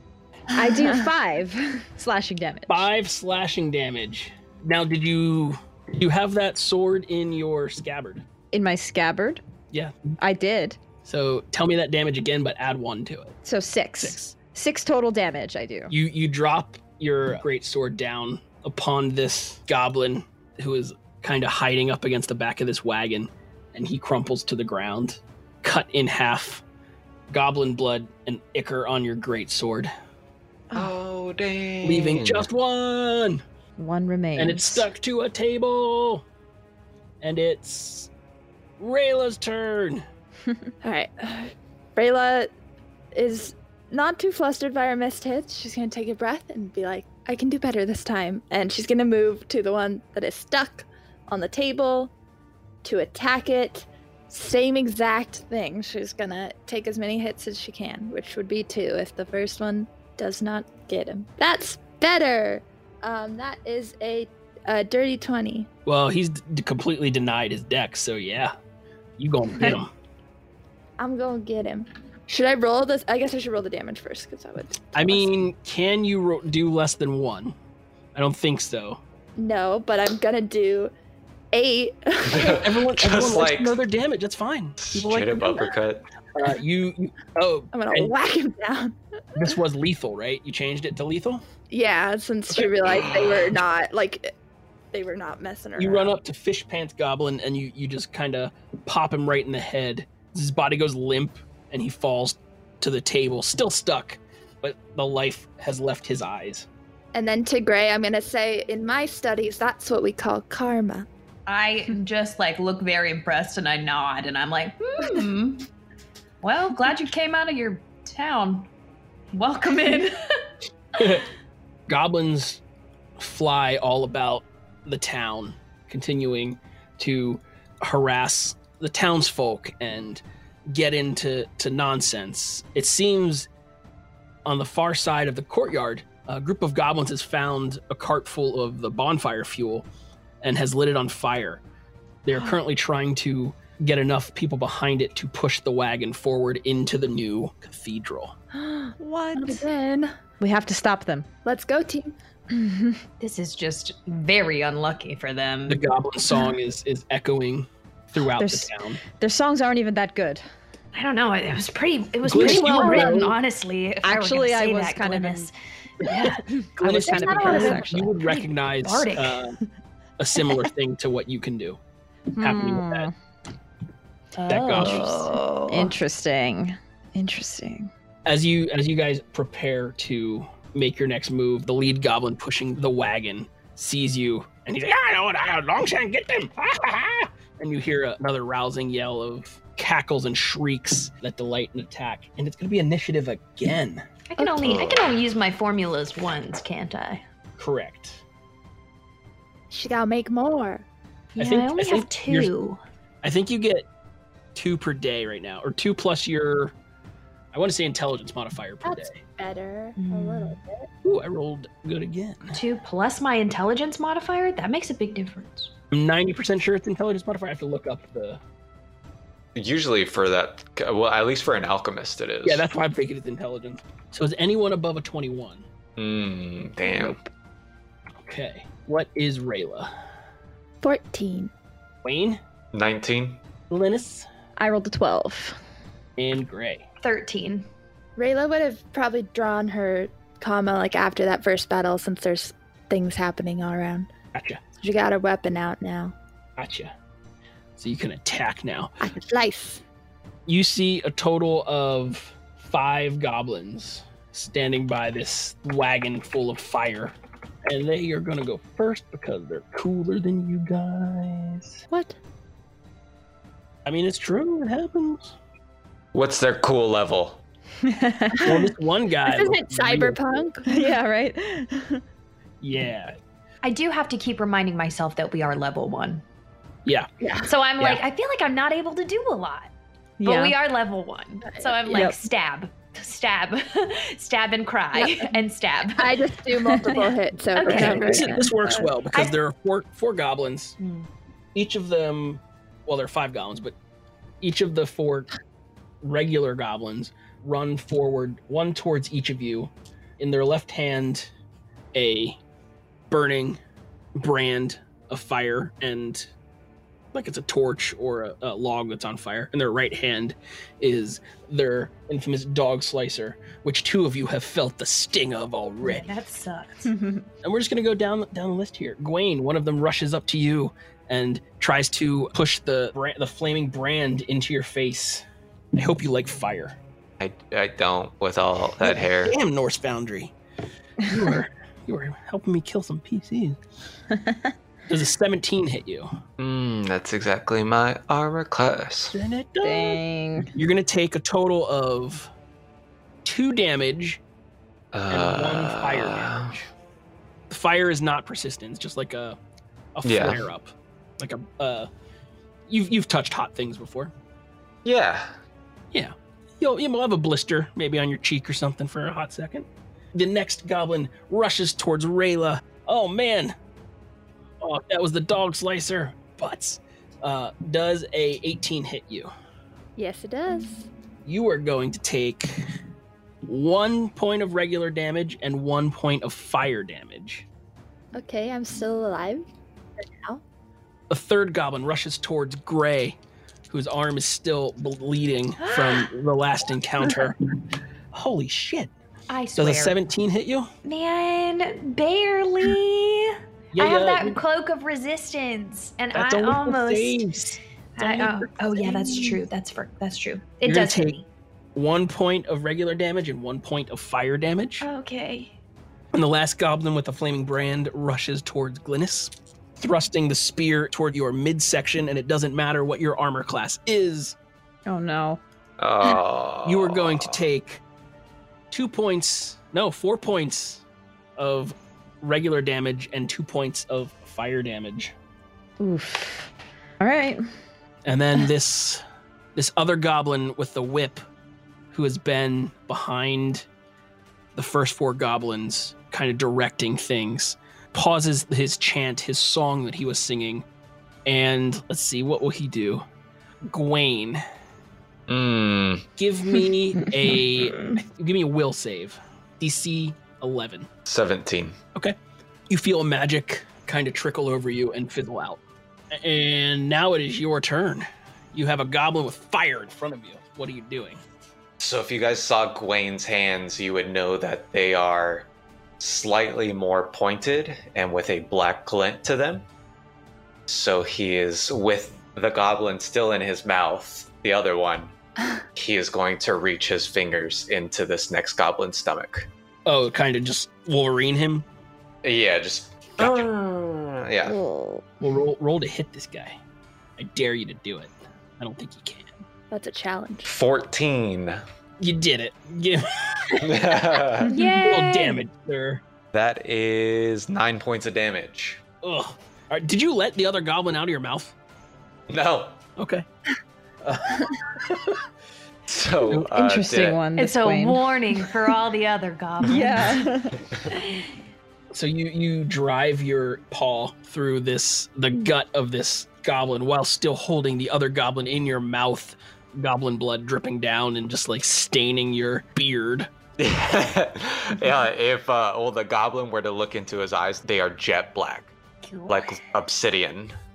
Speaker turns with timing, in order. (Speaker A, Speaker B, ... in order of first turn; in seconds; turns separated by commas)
Speaker A: 0.6-2.9, Speaker B: 0.6-1.1, Speaker C: 2.7-8.2, Speaker A: 8.5-9.4, Speaker C: 9.7-10.0, Speaker A: 10.2-10.8, Speaker C: 11.0-13.4, Speaker A: 13.4-15.9, Speaker C: 14.0-14.3, Speaker C: 15.9-26.6, Speaker C: 27.3-29.9, Speaker D: 30.7-32.5, Speaker C: 31.8-33.4, Speaker A: 33.8-34.9, Speaker C: 34.4-36.2, Speaker C: 37.2-38.1, Speaker C: 38.8-40.0, Speaker B: 40.8-42.5, Speaker B: 43.1-52.1, Speaker B: 52.8-65.7, Speaker C: 65.9-68.5, Speaker C: 69.2-69.9, Speaker B: 71.0-75.3, Speaker C: 74.9-77.5, Speaker C: 78.2-79.0, Speaker B: 79.4-80.9, Speaker B: 81.5-82.8, Speaker D: 82.3-83.8, Speaker C: 82.5-85.8, Speaker D: 84.8-86.0, Speaker C: 86.3-88.1, Speaker B: 87.7-89.5, Speaker C: 89.3-91.4, Speaker B: 91.7-94.3, Speaker C: 92.5-93.2, Speaker B: 94.9-96.2, Speaker C: 95.8-106.7, Speaker B: 107.1-111.1, Speaker E: 111.5-115.7, Speaker E: 116.4-118.7, Speaker E: 119.3-120.4, Speaker C: 121.0-121.3, Speaker C: 121.9-122.6, Speaker C: 123.2-133.5, Speaker C: 134.4-139.9, Speaker C: 140.4-141.6, Speaker C: 142.2-148.3, Speaker B: 148.5-150.2, Speaker A: 149.0-149.7, Speaker A: 150.4-151.3, Speaker B: 151.4-152.2, Speaker A: 152.5-153.0, Speaker E: 153.2-155.8, Speaker C: 155.7-159.0, Speaker A: 158.4-160.4, Speaker E: 160.9-169.4, Speaker C: 162.2-163.4, Speaker B: 162.4-163.1, Speaker A: 162.7-163.1, Speaker A: 164.0-165.5, Speaker C: 166.0-169.6, Speaker A: 166.2-168.1, Speaker C: 170.2-171.8, Speaker A: 172.4-173.1, Speaker C: 172.4-173.1, Speaker E: 174.4-176.0, Speaker C: 174.5-175.3, Speaker A: 174.7-177.9, Speaker C: 178.2-194.1, Speaker E: 194.3-197.2, Speaker B: 194.4-194.8, Speaker D: 194.6-195.0, Speaker C: 197.6-198.2, Speaker B: 199.7-200.8, Speaker C: 201.4-202.5, Speaker E: 201.4-202.8, Speaker C: 203.2-203.9, Speaker C: 204.6-206.7, Speaker C: 207.5-209.2, Speaker B: 208.8-210.9, Speaker E: 210.0-210.6, Speaker C: 211.0-212.6, Speaker E: 212.5-215.7, Speaker C: 215.9-218.4, Speaker D: 219.6-222.7, Speaker C: 222.4-225.7, Speaker D: 226.0-227.2, Speaker C: 228.2-229.9, Speaker B: 230.8-231.5, Speaker C: 232.0-232.4, Speaker D: 232.7-233.4, Speaker C: 233.7-234.3, Speaker A: 234.6-235.6, Speaker C: 236.2-236.8, Speaker E: 237.0-237.7, Speaker B: 238.2-244.1, Speaker C: 244.3-244.6, Speaker B: 244.8-246.2, Speaker C: 246.6-246.9, Speaker C: 247.8-249.0, Speaker B: 249.0-249.8, Speaker C: 250.5-257.1, Speaker C: 257.7-261.8, Speaker C: 263.9-265.3, Speaker D: 266.1-267.4, Speaker A: 267.8-268.6, Speaker C: 268.4-270.2, Speaker B: 269.2-270.9, Speaker A: 270.7-272.0, Speaker C: 272.6-273.2, Speaker E: 273.6-276.2, Speaker B: 277.2-277.5, Speaker E: 277.4-279.7, Speaker A: 280.2-280.6, Speaker E: 280.2-286.2, Speaker B: 281.5-282.0, Speaker A: 281.9-282.2, Speaker B: 285.0-285.3, Speaker B: 286.0-288.8, Speaker E: 287.5-288.3, Speaker A: 287.7-288.5, Speaker C: 287.7-290.8, Speaker E: 290.8-291.1, Speaker C: 291.6-293.7, Speaker C: 294.4-295.3, Speaker C: 296.0-301.3, Speaker C: 301.9-302.4, Speaker C: 303.1-303.6, Speaker C: 304.2-306.3, Speaker C: 307.1-316.1, Speaker E: 315.8-316.9, Speaker A: 316.9-317.2, Speaker C: 317.4-325.2, Speaker C: 325.8-326.8, Speaker D: 327.2-329.4, Speaker C: 328.8-330.3, Speaker C: 331.0-333.6, Speaker C: 334.9-336.2, Speaker D: 336.4-339.1, Speaker C: 339.1-340.0, Speaker A: 339.6-340.5, Speaker C: 340.5-342.3, Speaker C: 343.2-344.2, Speaker D: 344.9-346.5, Speaker C: 345.1-346.6, Speaker C: 347.5-349.4, Speaker C: 349.9-351.9, Speaker D: 350.0-350.4, Speaker C: 352.7-354.1, Speaker D: 354.9-355.3, Speaker C: 355.9-363.6, Speaker C: 364.6-369.3, Speaker B: 370.0-370.9, Speaker C: 371.3-372.5, Speaker C: 373.5-377.4, Speaker B: 378.1-379.5, Speaker B: 380.0-380.4, Speaker C: 381.1-383.2, Speaker C: 383.7-387.4, Speaker E: 385.6-386.1, Speaker C: 388.1-388.9, Speaker E: 389.3-390.0, Speaker C: 389.6-390.7, Speaker E: 390.9-401.2, Speaker C: 393.7-394.4, Speaker C: 396.1-399.4, Speaker C: 400.6-401.2, Speaker C: 401.8-404.9, Speaker E: 404.8-405.6, Speaker C: 406.1-414.4, Speaker A: 414.9-415.4, Speaker D: 415.8-417.4, Speaker C: 416.6-417.8, Speaker C: 418.7-420.8, Speaker C: 421.4-425.1, Speaker A: 425.8-426.5, Speaker A: 427.0-427.4, Speaker C: 428.1-429.0, Speaker C: 429.6-431.2, Speaker C: 431.9-433.7, Speaker C: 434.6-440.6, Speaker C: 441.2-443.0, Speaker C: 443.6-444.4, Speaker D: 445.3-446.1, Speaker C: 446.2-450.9, Speaker D: 451.1-451.8, Speaker C: 452.7-455.6, Speaker C: 456.1-461.2, Speaker D: 461.8-465.5, Speaker D: 466.0-469.7, Speaker D: 470.7-475.1, Speaker D: 475.8-479.5, Speaker C: 479.9-481.6, Speaker D: 482.2-484.6, Speaker A: 484.5-485.0, Speaker C: 485.2-486.6, Speaker C: 487.2-489.4, Speaker B: 489.7-490.5, Speaker D: 490.4-491.6, Speaker C: 492.0-493.7, Speaker D: 493.6-494.5, Speaker E: 494.4-495.4, Speaker C: 494.8-496.0, Speaker D: 496.3-498.8, Speaker C: 499.0-501.5, Speaker D: 502.3-502.8, Speaker C: 503.0-503.2, Speaker D: 505.9-507.2, Speaker A: 506.3-508.1, Speaker E: 507.4-510.3, Speaker A: 509.7-510.6, Speaker E: 510.9-511.2, Speaker C: 511.9-523.3, Speaker D: 523.6-528.7, Speaker E: 529.0-529.6, Speaker D: 529.3-530.5